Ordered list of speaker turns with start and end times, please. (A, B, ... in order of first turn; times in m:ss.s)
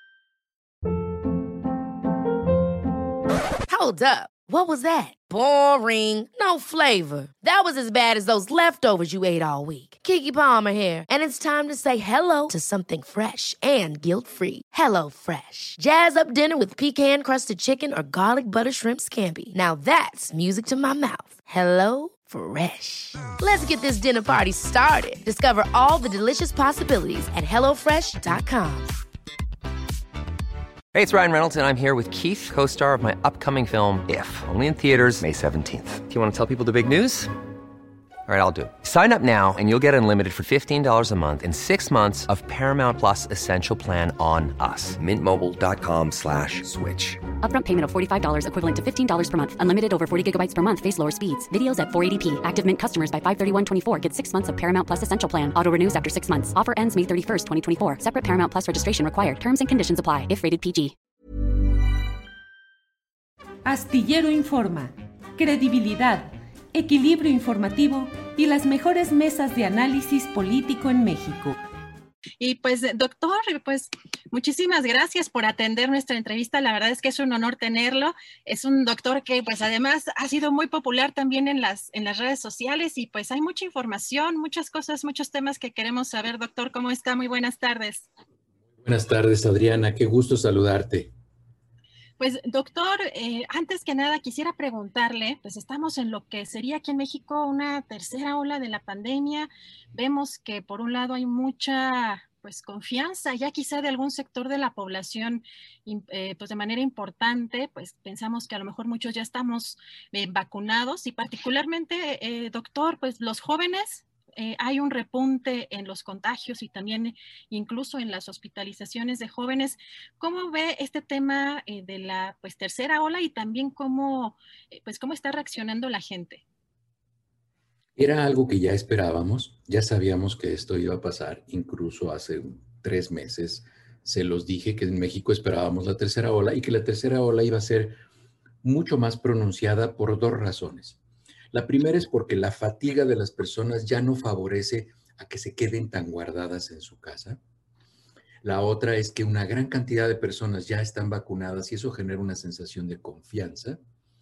0:03.7-0:29.0 A
0:30.9-0:37.3 B
0:38.3-0:47.2 B
0:47.4-1:00.9 C
1:03.6-1:11.6 D
1:12.4-1:28.1 E
1:28.8-1:31.1 F
1:32.2-2:06.4 E
2:08.0-2:18.0 F
2:18.6-2:21.0 F
2:21.5-2:27.4 F
2:28.4-2:33.8 F